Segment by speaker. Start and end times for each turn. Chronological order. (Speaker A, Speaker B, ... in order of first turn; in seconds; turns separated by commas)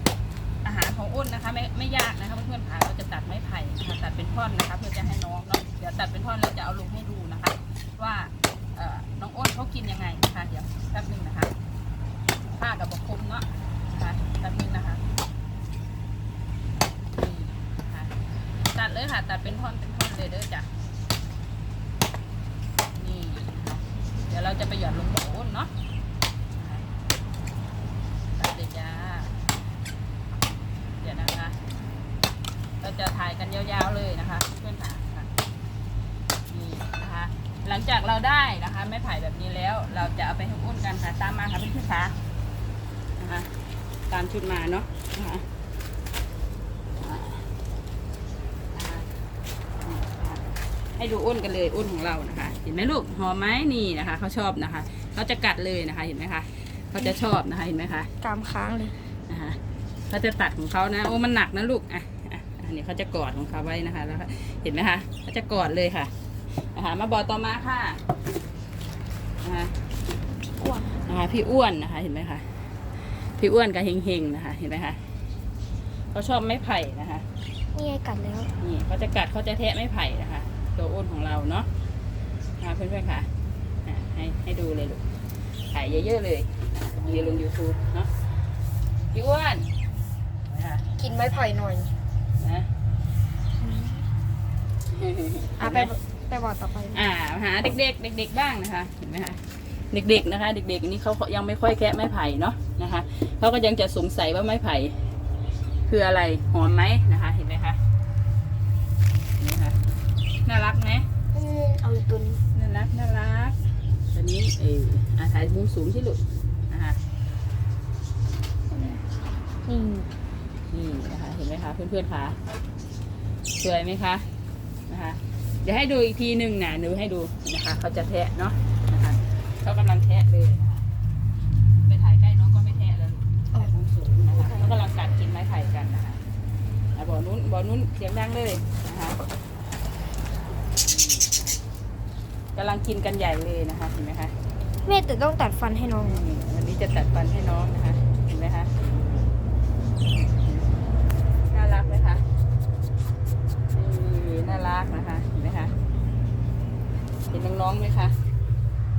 Speaker A: 0.6-11.5, Speaker A: 12.4-15.0, Speaker A: 17.1-20.7, Speaker A: 22.9-25.7, Speaker A: 26.5-26.9, Speaker A: 28.4-29.4, Speaker A: 31.0-31.6, Speaker A: 32.8-35.3, Speaker A: 36.5-42.2, Speaker A: 43.2-43.5, Speaker A: 44.1-45.5, Speaker A: 47.0-47.5, Speaker A: 48.7-49.1, Speaker A: 49.8-58.1, Speaker B: 58.2-59.0, Speaker A: 59.3-68.0, Speaker A: 69.4-69.7, Speaker B: 70.5-70.9, Speaker A: 71.0-72.5, Speaker A: 73.4-75.0, Speaker A: 76.1-77.2, Speaker B: 77.7-78.5, Speaker A: 78.6-81.7, Speaker A: 82.6-83.3, Speaker A: 83.8-85.0, Speaker A: 85.7-88.1, Speaker B: 87.1-87.4, Speaker A: 89.1-89.7, Speaker A: 90.5-91.0, Speaker B: 91.0-91.9, Speaker A: 92.4-92.7, Speaker B: 93.6-94.1, Speaker A: 94.9-95.9, Speaker B: 95.6-97.0, Speaker A: 96.9-105.0, Speaker A: 105.9-107.8, Speaker A: 109.4-109.8, Speaker A: 110.4-111.1, Speaker B: 111.3-112.4, Speaker A: 112.5-113.6, Speaker A: 114.1-117.0, Speaker B: 118.7-119.0, Speaker B: 119.7-120.1, Speaker A: 120.7-122.4, Speaker A: 123.6-124.3, Speaker A: 124.9-130.8, Speaker A: 131.8-136.2, Speaker B: 134.3-134.7, Speaker A: 136.9-139.2, Speaker A: 140.9-141.2, Speaker A: 142.5-144.3, Speaker B: 144.8-146.2, Speaker A: 146.0-148.8, Speaker A: 151.5-152.2, Speaker A: 153.7-155.7, Speaker A: 157.3-158.2